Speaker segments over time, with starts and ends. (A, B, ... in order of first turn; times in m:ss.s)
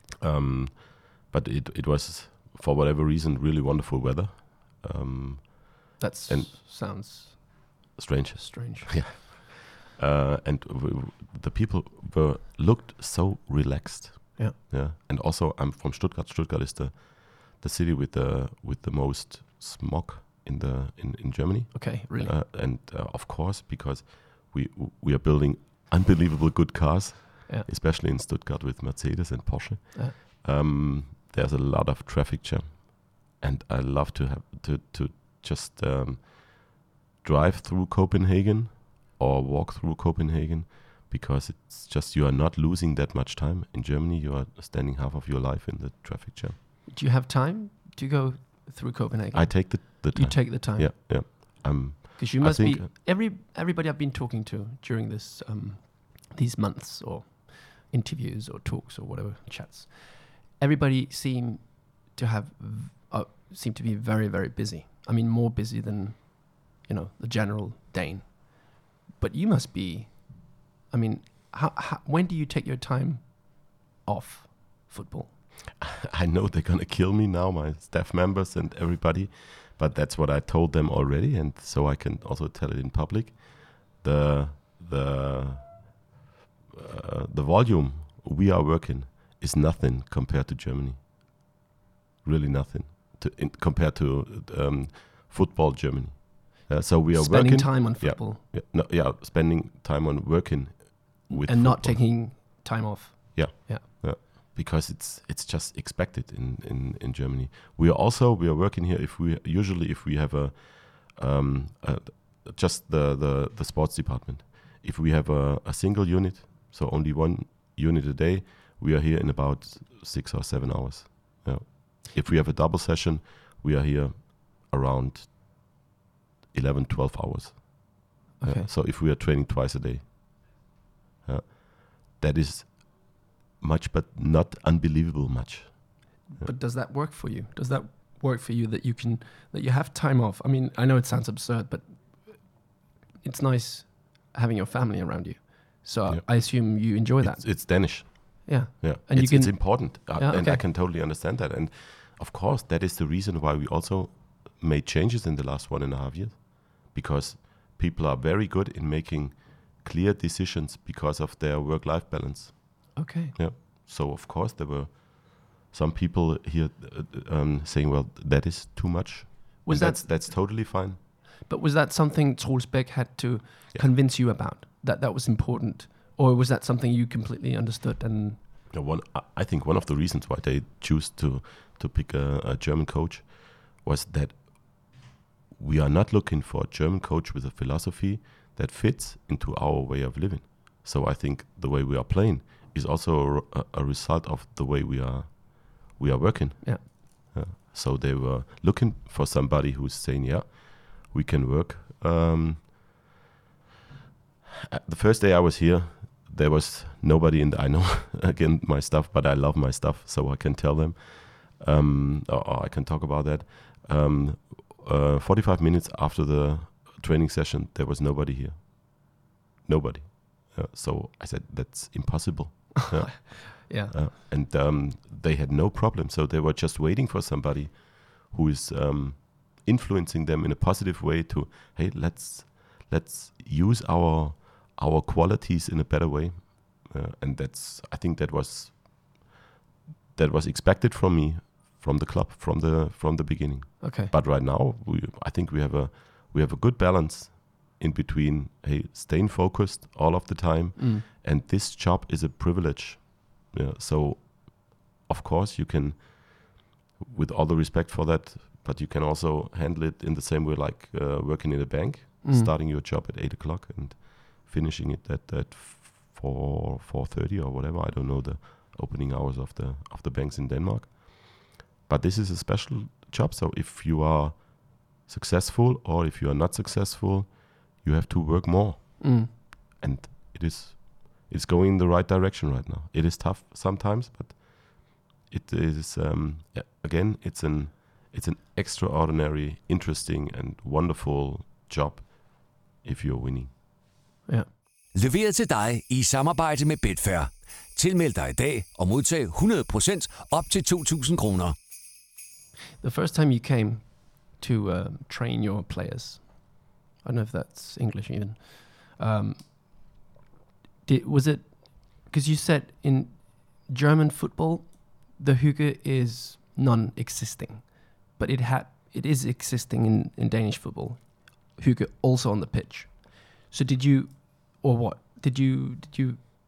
0:00.2-0:06.5 A
0:06.0-0:07.8 B
0:08.0-0:46.6 A
0:08.4-0:09.2 B
0:21.7-0:22.3 B
0:46.9-0:51.6 B
0:49.3-0:52.9 A
0:52.2-1:15.3 B
1:15.8-1:26.0 A
1:26.7-1:31.2 A
1:32.2-1:42.2 A
1:37.1-1:38.4 B
1:41.3-1:43.8 B
1:43.3-2:05.6 A
2:06.5-2:10.5 A
2:08.4-2:08.7 B
2:11.2-2:16.5 A
2:16.3-2:30.6 B
2:26.1-2:51.0 A
2:43.0-2:43.4 B
2:49.6-2:50.7 B
2:51.5-2:58.4 B
2:58.7-3:22.8 A
3:24.7-3:59.3 A
3:42.8-3:43.9 B
4:00.2-4:53.5 A
4:03.8-4:04.1 B
4:10.8-4:11.0 B
4:22.2-4:22.5 B
4:39.0-4:39.3 B
4:54.9-5:01.6 C
5:02.8-5:09.9 B
5:10.8-5:26.2 B